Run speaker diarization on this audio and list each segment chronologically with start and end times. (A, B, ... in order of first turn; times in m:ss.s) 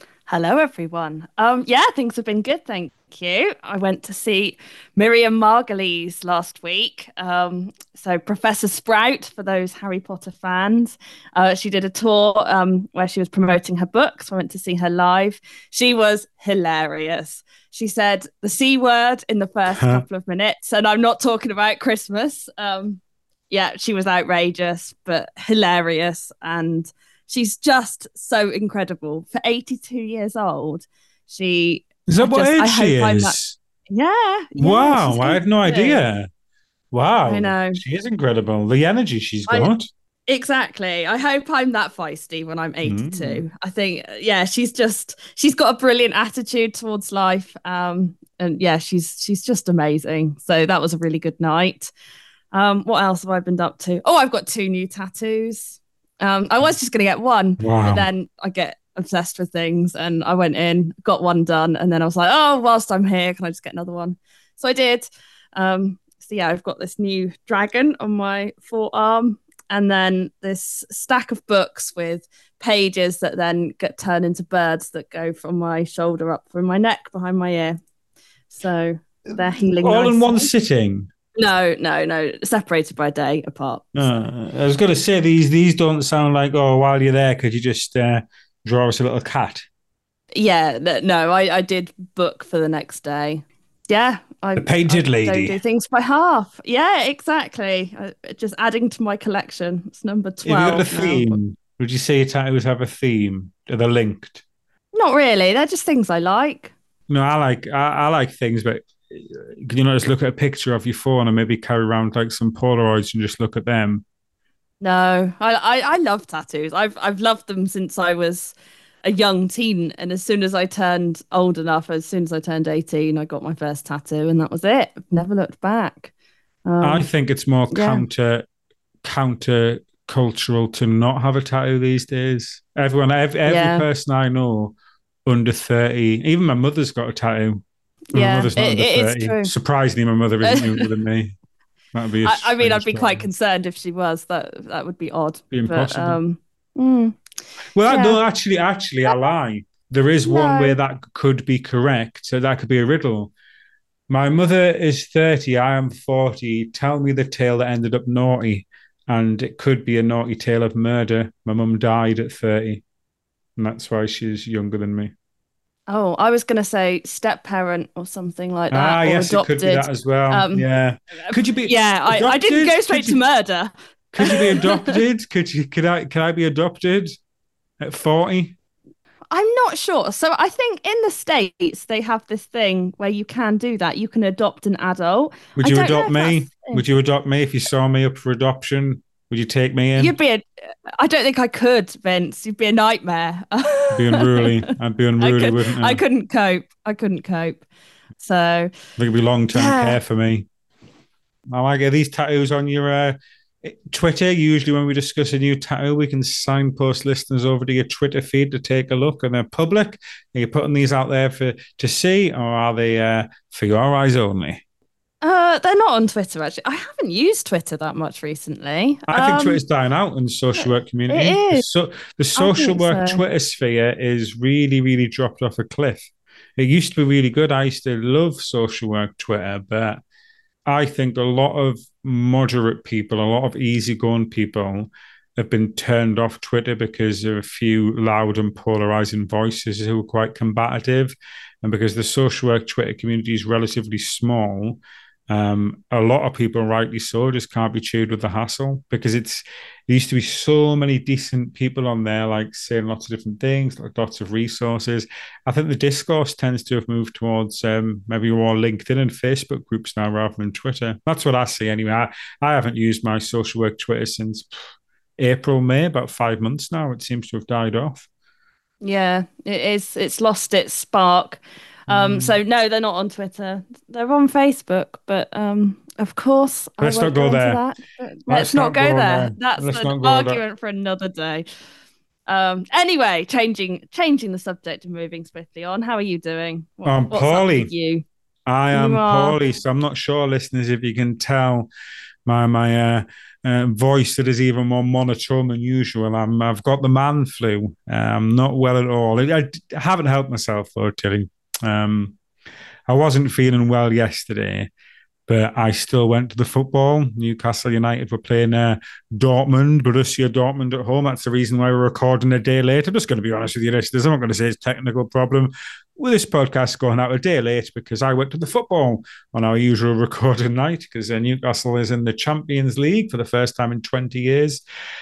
0:00.3-0:33.4 A
0:19.7-0:20.0 B
0:32.1-0:33.6 B
0:33.9-0:36.0 A
0:34.6-0:36.3 B
0:36.9-0:39.8 B
0:37.2-0:37.8 A
0:40.3-0:51.9 A
0:42.8-0:43.4 B
0:52.5-1:17.8 A
0:57.6-0:58.1 B
1:18.5-1:20.5 A
1:19.8-1:21.1 B
1:21.3-1:23.9 A
1:23.9-1:29.7 B
1:30.3-1:41.4 A
1:34.6-1:35.6 B
1:40.4-1:44.4 B
1:44.9-1:46.7 A
1:47.1-1:54.0 B
1:54.8-2:06.1 A
2:06.6-2:07.1 A
2:06.8-2:08.4 B
2:07.7-2:08.0 A
2:09.0-2:14.7 B
2:13.4-2:13.9 A
2:15.2-2:21.3 B
2:18.1-2:19.5 A
2:20.4-2:20.9 A
2:21.9-2:23.3 B
2:22.2-2:27.2 A
2:25.5-2:26.2 B
2:27.7-2:33.3 B
2:27.9-2:28.2 A
2:30.2-2:30.8 A
2:34.1-2:42.8 B
2:43.6-2:45.1 B
2:45.9-2:50.6 A
2:48.7-2:53.2 B
2:51.2-2:55.0 A
2:54.1-2:57.1 B
2:57.8-2:58.6 B
2:59.3-3:06.8 A
3:05.6-3:10.1 B
3:10.0-3:10.4 A
3:11.0-3:17.6 A
3:13.9-3:16.0 B
3:18.2-3:18.7 A
3:19.0-3:20.5 B
3:19.5-3:20.0 A
3:21.5-3:34.6 B
3:35.2-3:39.6 A
3:39.1-3:50.0 B
3:40.6-3:41.6 A
3:42.4-3:43.2 A
3:50.6-4:24.5 B
4:25.2-4:28.1 B
4:28.8-4:41.4 A
4:31.9-4:32.4 B
4:36.8-4:37.6 B
4:38.3-4:40.4 B
4:42.3-4:48.0 A
4:46.8-4:47.7 B
4:48.4-4:51.7 B
4:48.7-4:49.4 A
4:52.2-5:02.2 B
5:02.9-5:04.7 B
5:05.3-5:24.6 B